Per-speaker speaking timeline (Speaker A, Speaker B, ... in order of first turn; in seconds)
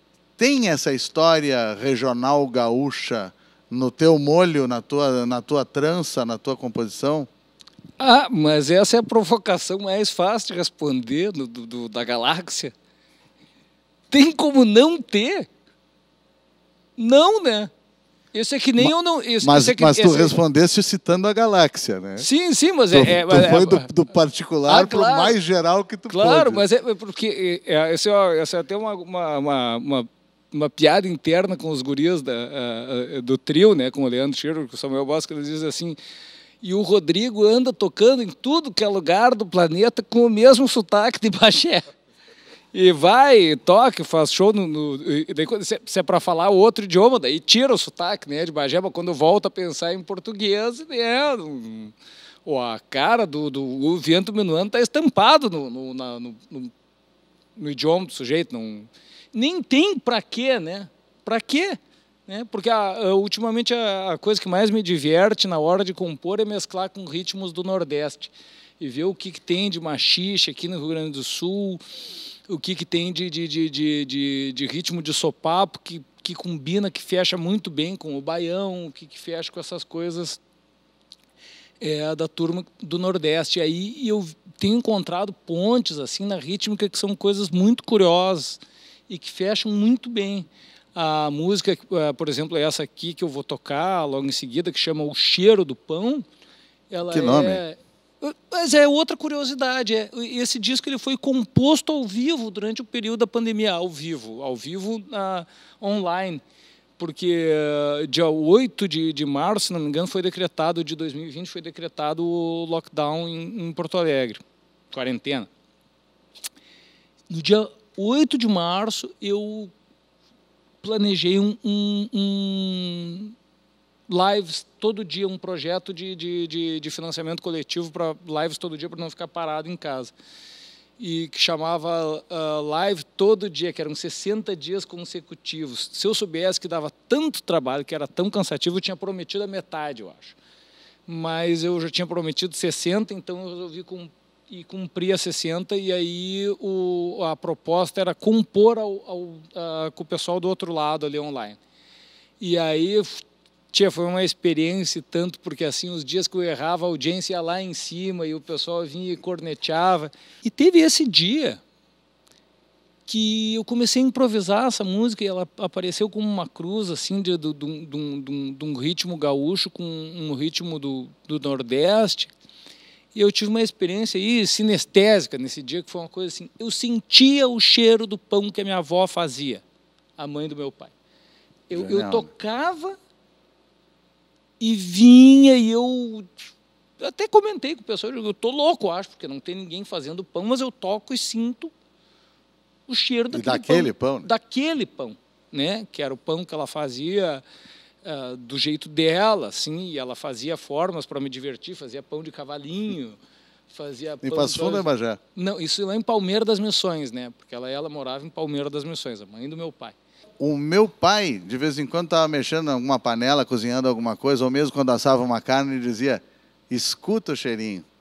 Speaker A: 0.4-7.3, 18.8-22.3, 22.9-26.6, 97.1-97.6, 181.7-182.3, 193.3-194.3, 204.2-205.2, 210.4-217.9
Speaker B: 8.0-12.7, 14.1-15.5, 17.0-17.7, 18.3-20.4, 22.2-23.9, 24.7-25.4, 26.1-36.0, 36.6-41.9, 42.7-52.0, 52.5-56.7, 57.6-71.8, 72.5-80.4, 81.8-96.3, 96.9-106.4, 107.0-115.5, 117.3-119.7, 120.8-123.3, 124.1-130.1, 131.0-140.4, 141.1-151.6, 152.4-161.6, 163.1-172.3, 173.1-179.6, 180.2-180.9, 181.7-183.0, 184.6-186.4, 187.0-191.7, 192.9-197.4, 198.0-203.2, 203.7-210.0